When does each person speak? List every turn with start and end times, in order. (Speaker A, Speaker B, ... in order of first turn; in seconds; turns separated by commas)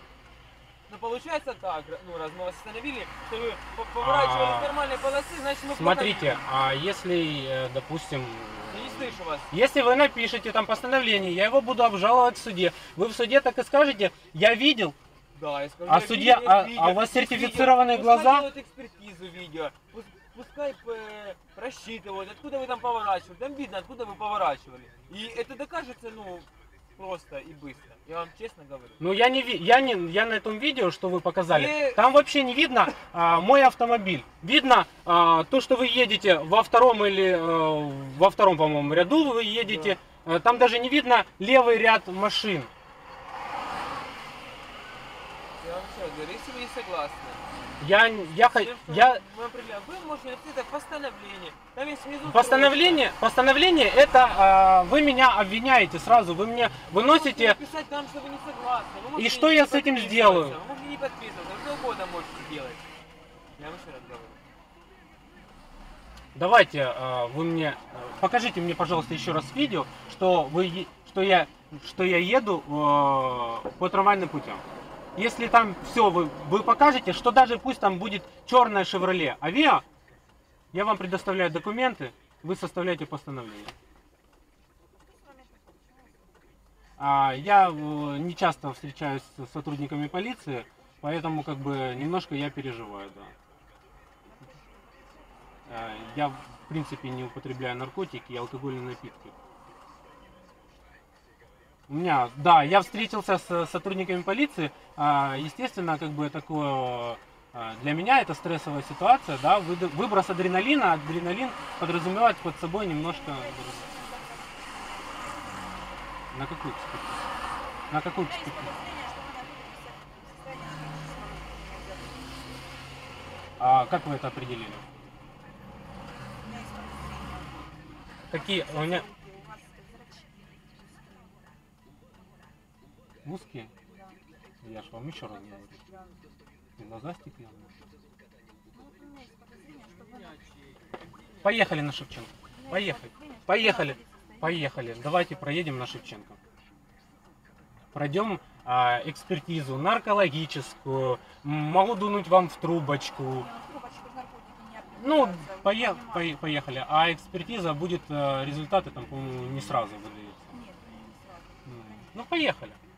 Speaker A: 0.9-6.4, Speaker B: 4.0-4.8, Speaker B: 5.7-15.0, Speaker A: 8.7-9.5, Speaker A: 15.3-29.0, Speaker B: 15.9-18.5, Speaker B: 29.0-42.7, Speaker A: 31.5-32.0, Speaker A: 39.6-40.0, Speaker A: 45.6-47.4, Speaker B: 47.8-49.2, Speaker A: 48.4-53.1, Speaker B: 52.2-57.6, Speaker A: 56.9-62.8, Speaker B: 59.1-60.6, Speaker A: 63.6-64.4, Speaker B: 66.3-74.6, Speaker B: 75.2-79.8, Speaker B: 80.7-83.7, Speaker C: 85.0-86.4, Speaker B: 87.0-93.3, Speaker C: 94.2-96.1, Speaker B: 95.7-99.3, Speaker C: 100.2-100.6, Speaker B: 101.9-113.9, Speaker C: 102.5-103.1, Speaker C: 112.8-116.0, Speaker B: 116.3-117.2, Speaker B: 117.9-118.7, Speaker C: 118.2-122.4, Speaker B: 123.6-124.8, Speaker C: 126.4-127.5, Speaker C: 128.3-131.4, Speaker B: 128.3-129.1, Speaker B: 133.2-133.7, Speaker C: 133.8-134.2, Speaker B: 134.6-135.8, Speaker C: 135.2-136.3, Speaker B: 136.8-137.7, Speaker C: 138.7-140.4, Speaker A: 139.9-141.7, Speaker B: 141.4-146.4, Speaker C: 142.5-146.1, Speaker B: 147.9-153.5, Speaker C: 153.3-156.4, Speaker B: 155.0-160.6, Speaker C: 160.5-162.2, Speaker B: 161.7-162.8